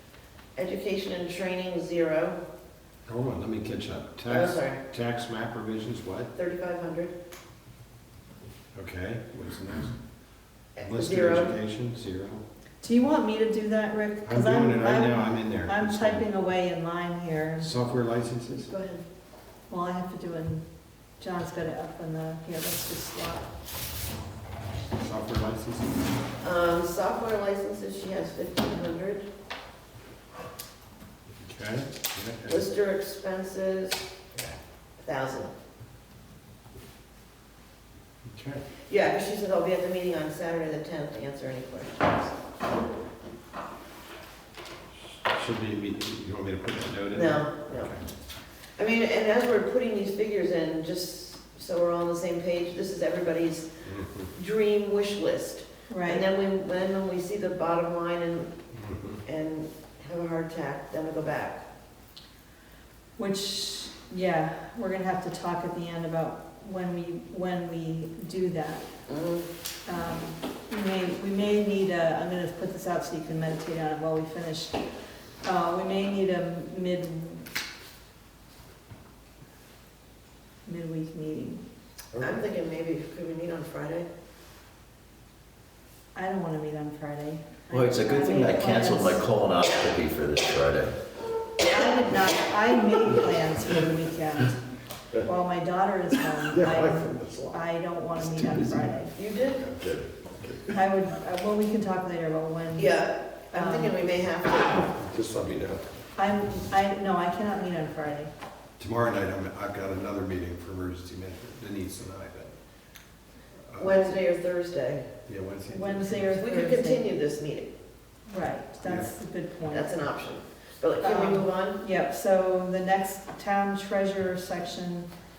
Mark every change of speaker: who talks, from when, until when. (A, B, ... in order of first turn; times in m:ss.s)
0:00.6-0:02.4 A
0:03.1-0:06.3 B
0:04.3-0:04.8 A
0:06.4-0:07.1 A
0:08.8-0:10.0 B
0:10.8-0:11.5 A
0:10.8-0:12.4 B
0:12.8-0:17.7 C
0:14.3-0:16.3 B
0:17.6-0:18.7 B
0:18.6-0:19.0 A
0:19.7-0:20.6 C
0:21.2-0:23.5 C
0:25.0-0:26.1 B
0:26.4-0:29.2 A
0:31.4-0:32.6 B
0:32.5-0:34.1 A
0:35.0-0:35.5 A
0:38.3-0:38.6 B
0:38.9-0:42.3 A
0:45.2-0:48.0 B
0:47.1-0:48.0 A
0:48.8-0:53.7 A
0:53.8-0:54.3 B
0:54.4-0:58.5 A
0:55.9-0:56.3 C
0:58.7-0:59.2 B
0:59.2-1:01.6 A
1:03.2-1:08.8 C
1:09.1-1:09.5 A
1:09.9-1:14.8 C
1:15.4-1:17.5 C
1:20.6-1:21.6 C
1:22.2-1:22.4 B
1:22.2-1:24.1 A
1:26.2-1:29.3 C
1:27.7-1:31.0 D
1:31.6-1:34.6 C
1:35.2-1:39.1 C
1:36.5-1:37.6 B
1:38.3-1:39.0 B
1:39.2-1:39.7 A
1:39.6-1:40.8 B
1:40.7-1:43.0 C
1:42.8-1:44.9 A
1:43.5-1:44.0 C
1:44.9-1:45.9 B
1:46.2-1:48.3 C
1:48.8-1:52.6 B
1:53.7-1:54.1 B
1:53.8-1:55.1 A
1:55.3-1:56.4 B
1:55.7-1:57.1 C
1:56.3-1:57.7 A
1:58.3-2:00.0 C
1:58.8-1:59.1 B
1:59.7-2:01.8 A
2:01.0-2:05.1 C